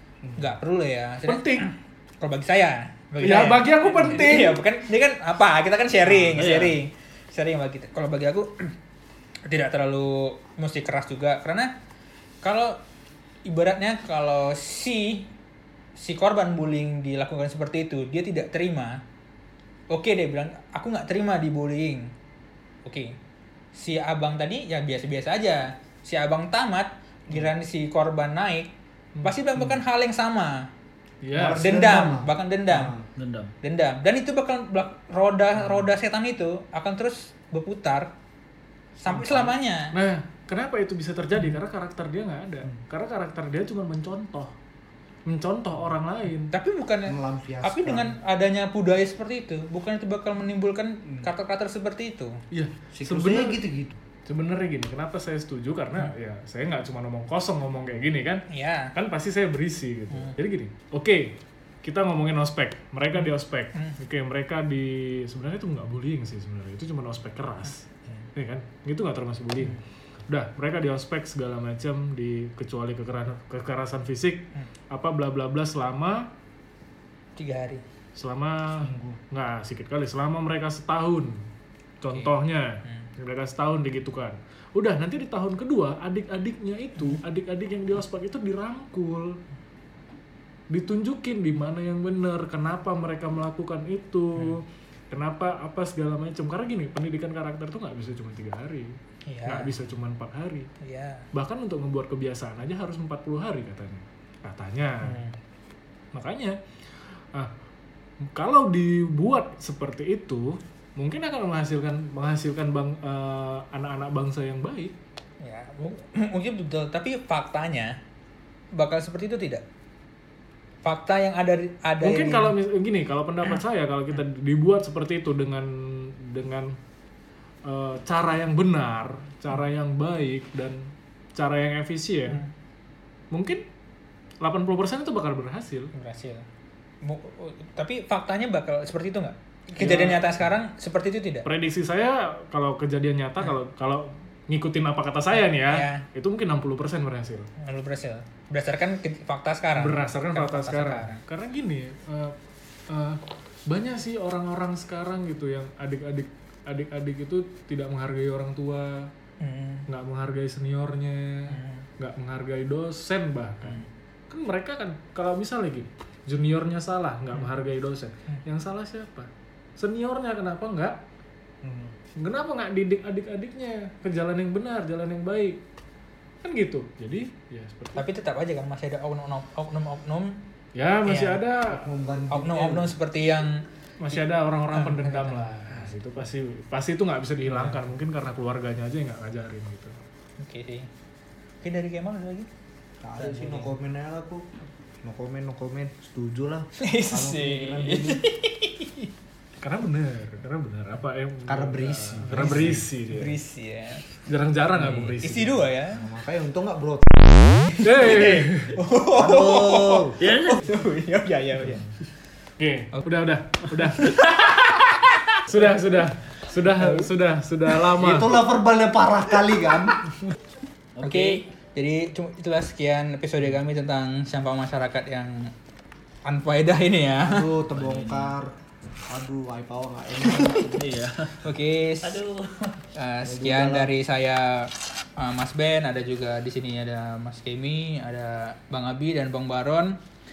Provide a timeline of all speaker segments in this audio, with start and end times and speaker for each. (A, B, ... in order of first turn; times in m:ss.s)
0:00.2-0:00.5 A
0:00.4-0:08.7 B
0:01.3-0:01.7 C
0:03.2-0:04.6 C
0:06.1-0:06.4 A
0:06.3-0:06.8 D
0:09.5-0:11.7 B
0:12.4-0:12.8 B
0:13.4-0:15.3 B
0:16.0-0:19.0 B
0:19.9-0:22.1 B
0:22.8-0:23.1 B
0:23.7-0:28.7 B
0:29.2-0:30.7 B
0:31.2-0:31.7 C
0:31.3-0:33.0 A
0:31.5-0:33.0 B
0:33.2-0:33.5 D
0:33.6-0:38.1 B
0:35.6-0:35.9 A
0:39.0-0:40.0 B
0:39.1-0:39.5 A
0:39.9-0:44.5 C
0:45.3-0:46.5 C
0:46.5-0:52.4 B
0:47.1-0:48.2 A
0:52.5-0:53.6 C
0:52.9-0:54.0 A
0:54.3-1:16.3 C
0:58.5-0:58.9 B
1:03.1-1:04.0 B
1:17.4-1:17.8 B
1:18.2-1:21.5 C
1:18.8-1:19.2 A
1:22.0-1:29.4 C
1:22.1-1:22.3 B
1:30.7-1:40.7 C
1:39.3-1:39.8 B
1:40.8-1:41.3 B
1:41.3-1:45.2 C
1:45.0-1:45.4 B
1:46.1-1:46.6 C
1:48.3-1:54.9 C
1:55.4-1:58.0 B
1:58.7-1:59.6 B
2:00.8-2:02.6 B
2:02.0-2:06.8 C
2:07.6-2:12.4 C
2:13.3-2:13.6 C
2:14.4-2:15.9 C
2:15.9-2:16.5 B
2:17.0-2:21.4 B
2:19.8-2:20.5 C
2:21.4-2:27.5 C
2:25.6-2:26.1 B
2:27.6-2:31.2 B
2:29.8-2:32.4 C
2:32.9-2:39.1 C
2:39.4-2:39.9 B
2:39.9-2:51.0 C
2:41.5-2:41.8 B
2:51.6-2:51.9 A
2:52.2-2:55.6 C
2:56.4-2:58.0 C
2:58.0-3:00.4 B
3:00.8-3:01.9 C
3:01.0-3:01.4 B
3:01.7-3:03.0 A
3:02.3-3:05.9 B
3:04.0-3:10.0 C
3:07.5-3:07.8 B
3:10.4-3:10.9 B
3:11.6-3:12.5 B
3:13.0-3:18.2 A
3:13.2-3:13.7 B
3:16.8-3:19.1 B
3:19.6-3:23.4 C
3:21.5-3:22.9 A
3:22.2-3:24.0 B
3:24.3-3:25.7 C
3:24.8-3:26.1 B
3:25.9-3:27.0 A
3:27.7-3:31.9 B
3:27.8-3:28.8 C
3:29.1-3:30.2 A
3:30.2-3:30.6 D
3:31.6-3:31.9 A
3:32.6-3:34.2 C
3:34.0-3:35.7 B
3:35.4-3:38.4 C
3:36.8-3:37.1 B
3:38.0-3:40.0 A
3:41.0-3:41.5 D
3:41.0-3:45.5 B
3:46.2-3:47.5 B
3:47.2-3:48.5 A
3:47.7-3:48.4 D
3:49.1-3:50.8 A
3:50.3-3:50.8 B
3:50.7-3:51.5 D
3:51.4-3:52.2 B
3:52.0-3:52.8 D
3:53.0-4:00.0 B
3:53.2-3:53.9 A